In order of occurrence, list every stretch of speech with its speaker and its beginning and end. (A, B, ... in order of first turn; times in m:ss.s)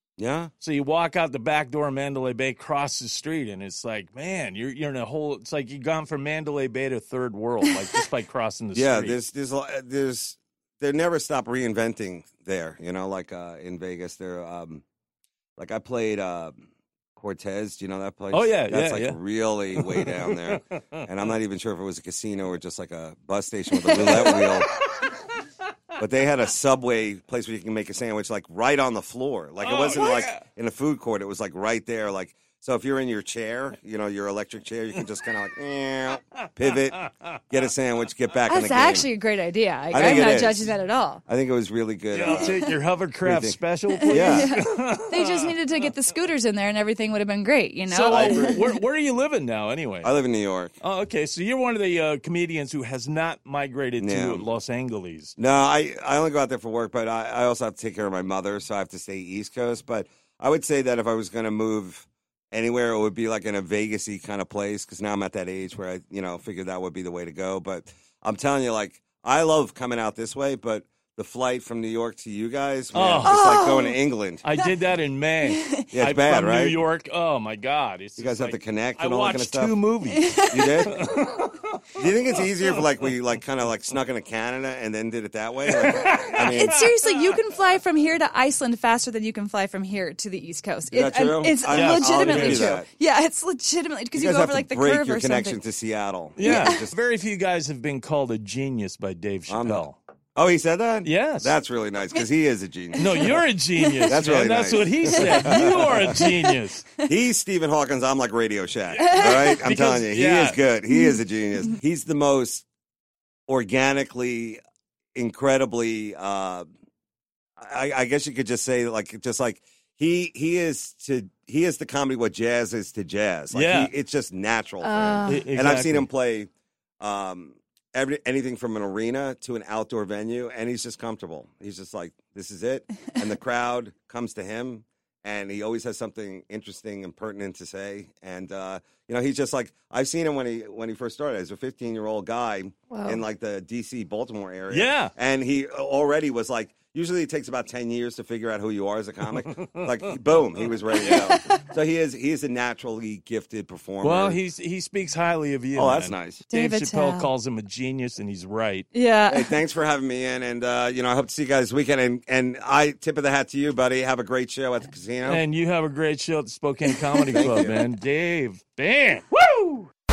0:00.2-0:00.5 A
0:00.6-0:09.2 B
0:08.7-0:14.8 A
0:15.6-0:16.6 A
0:17.2-0:24.7 A
0:18.3-0:19.2 B
0:19.7-0:21.1 B
0:23.7-0:24.6 C
0:24.0-0:25.3 B
0:26.0-0:39.1 A
0:29.6-0:30.4 B
0:35.0-0:35.3 B
0:37.0-0:37.4 B
0:38.5-0:41.2 C
0:39.9-0:42.6 A
0:42.1-0:45.6 B
0:42.3-0:42.7 C
0:43.2-0:44.6 A
0:44.0-0:48.8 C
0:47.9-0:50.1 B
0:48.1-0:48.6 A
0:50.0-0:50.8 A
0:50.8-0:55.4 B
0:54.0-0:54.5 A
0:55.4-1:14.4 A
1:12.9-1:13.4 B
1:13.2-1:14.0 C
1:14.4-1:22.1 B
1:15.4-1:15.9 C
1:15.9-1:16.8 A
1:18.2-1:19.8 A
1:20.1-1:21.1 C
1:20.5-1:21.1 A
1:22.0-1:26.8 A
1:25.7-1:27.3 B
1:26.5-1:35.6 C
1:30.9-1:32.9 A
1:31.7-1:32.8 B
1:34.1-1:36.9 A
1:36.4-1:40.0 B
1:36.5-1:36.8 C
1:39.5-1:43.4 A
1:41.0-1:41.6 B
1:43.0-1:46.8 B
1:43.8-1:44.2 C
1:44.0-1:46.2 A
1:45.1-1:46.4 C
1:47.0-1:52.6 A
1:48.9-1:50.6 B
1:49.0-1:49.6 C
1:50.9-1:51.8 C
1:53.5-1:54.6 A
1:55.2-1:56.7 A
1:57.6-2:06.5 A
2:03.5-2:03.9 B
2:04.8-2:05.5 C
2:05.3-2:06.1 B
2:07.0-2:34.4 A
2:22.9-2:23.2 C
2:24.7-2:25.1 B
2:29.2-2:30.1 B
2:31.0-2:31.3 B
2:31.0-2:31.6 C
2:34.0-2:38.9 B
2:35.8-2:36.4 A
2:36.5-2:37.3 C
2:38.9-2:39.6 C
2:39.3-2:45.4 A
2:45.2-2:49.9 B
2:47.3-2:47.8 A